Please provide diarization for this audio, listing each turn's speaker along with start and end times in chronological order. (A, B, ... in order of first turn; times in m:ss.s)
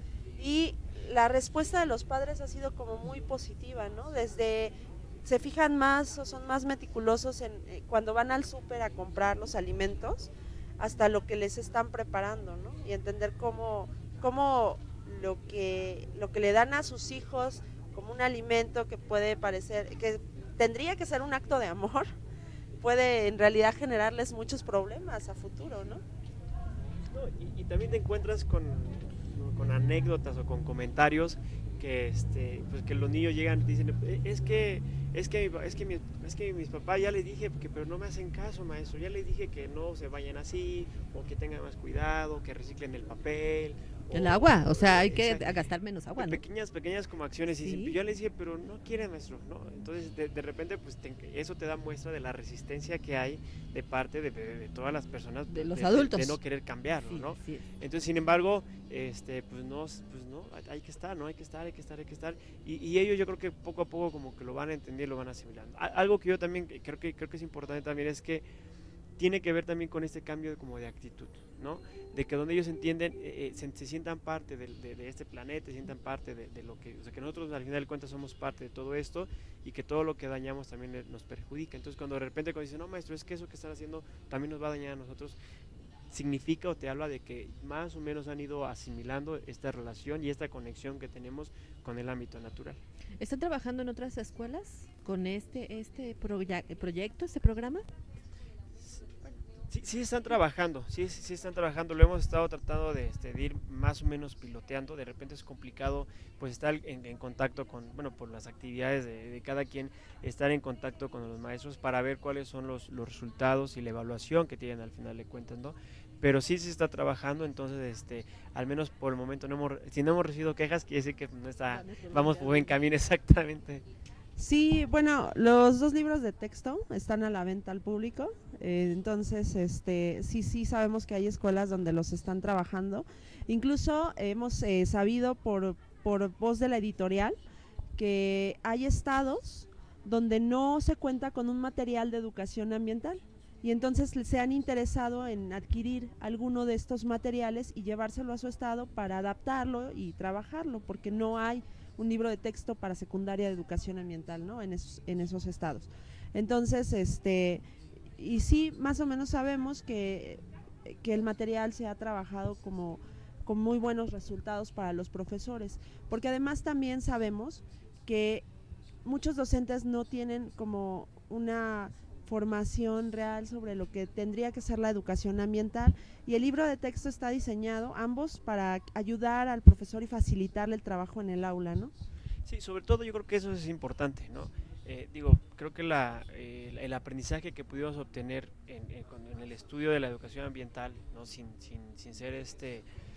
0:00.4-0:04.7 A
0:05.2-0:22.1 A
0:22.8-0:26.0 A
0:27.1-0:45.5 B
0:44.1-0:46.4 C
0:46.2-1:08.4 B
0:47.6-0:48.0 C
0:55.5-0:56.4 C
0:57.0-0:57.7 C
1:09.2-1:25.4 B
1:26.1-1:32.8 B
1:33.2-1:37.8 C
1:39.7-2:03.8 B
2:01.7-2:02.8 C
2:04.4-2:17.4 A
2:18.0-2:37.6 A
2:38.2-2:48.5 A
2:49.0-3:01.9 A
3:02.5-3:12.9 B